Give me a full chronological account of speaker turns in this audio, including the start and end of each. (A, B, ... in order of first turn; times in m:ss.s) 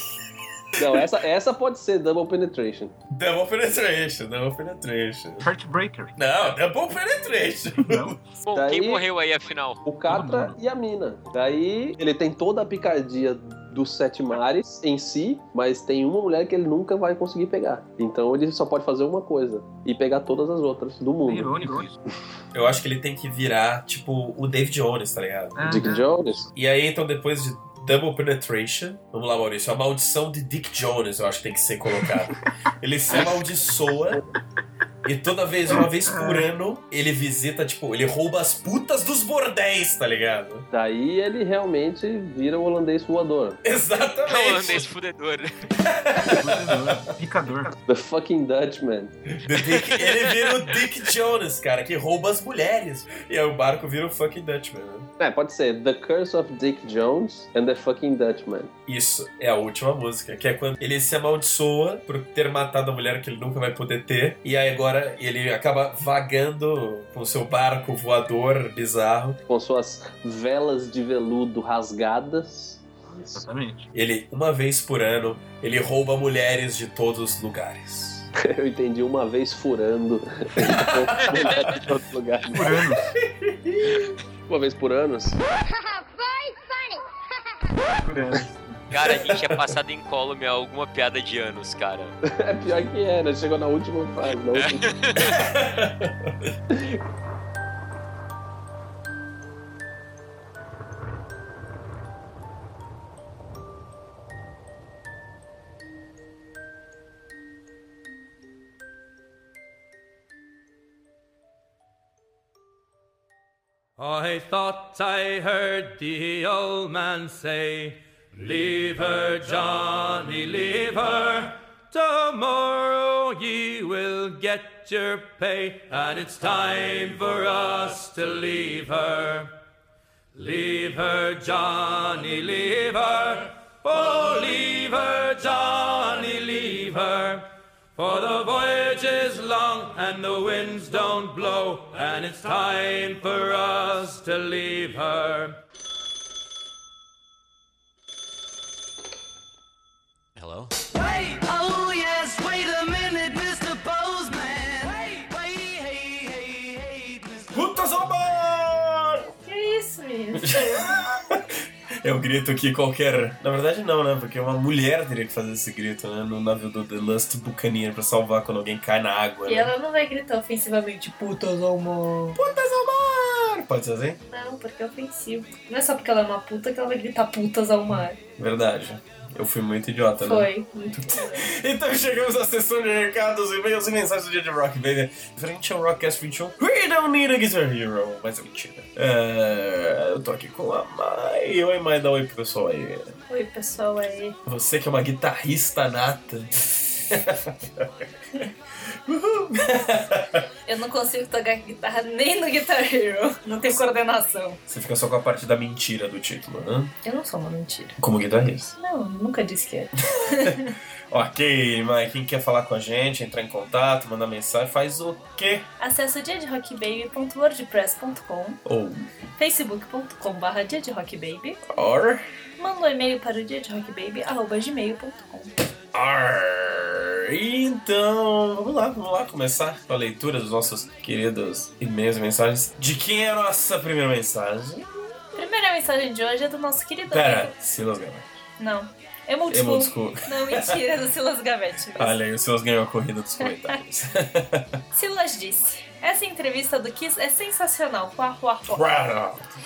0:00.8-0:02.9 A
0:03.1-0:05.5 B
0:05.4-0:06.2 C
0:06.2-0:08.1 B
0:07.8-0:08.2 C
0:08.4-0:09.8 D
0:08.5-0:09.0 A
0:09.8-0:21.8 A
0:10.1-0:10.6 C
0:21.2-0:22.0 C
0:22.5-0:25.8 B
0:25.5-0:26.5 C
0:25.7-0:26.4 A
0:26.5-0:34.2 B
0:35.0-0:40.6 B
0:35.7-0:36.5 C
0:40.7-0:43.6 A
0:43.6-0:44.9 B
0:44.3-0:45.5 D
0:45.8-0:47.0 B
0:46.2-0:47.7 C
0:47.8-0:49.1 A
0:49.4-0:55.1 B
0:49.8-0:50.7 D
0:55.2-0:58.7 A
0:58.9-1:09.4 B
1:09.5-1:13.4 A
1:13.3-1:13.9 C
1:13.9-1:18.3 B
1:18.4-1:22.8 A
1:20.6-1:21.0 B
1:22.5-1:23.0 C
1:23.2-1:24.1 B
1:24.5-1:25.4 A
1:28.0-1:28.8 C
1:28.9-1:32.1 D
1:29.1-1:29.5 B
1:32.3-1:34.9 A
1:34.6-1:35.4 D
1:35.2-1:36.3 B
1:54.0-2:09.5 E
2:10.4-2:17.4 E
2:18.0-2:25.5 E
2:30.9-2:37.6 F
2:37.5-2:39.3 B
2:39.4-2:40.9 G
2:40.4-2:41.5 B
2:42.0-2:49.7 B
2:49.4-2:52.4 G
2:52.4-2:54.2 B
2:54.3-2:58.2 G
2:58.4-3:13.2 B
3:00.2-3:01.5 G
3:13.3-3:14.4 G
3:14.4-3:17.9 B
3:19.0-3:20.4 B
3:20.6-3:24.6 G
3:24.7-3:26.9 B
3:27.0-3:28.0 G
3:28.0-3:28.7 B
3:28.8-3:30.7 G
3:31.1-3:35.6 B
3:35.8-3:38.6 G
3:38.6-3:39.1 B
3:39.4-3:41.6 G
3:41.7-3:42.2 B
3:42.6-3:45.5 G
3:45.9-3:55.0 B
3:55.3-3:57.5 G
3:57.1-3:58.3 B
3:58.6-4:02.2 G
3:59.5-4:00.8 B
4:02.0-4:04.8 B
4:03.4-4:03.8 G
4:04.9-4:08.9 G
4:08.7-4:09.6 B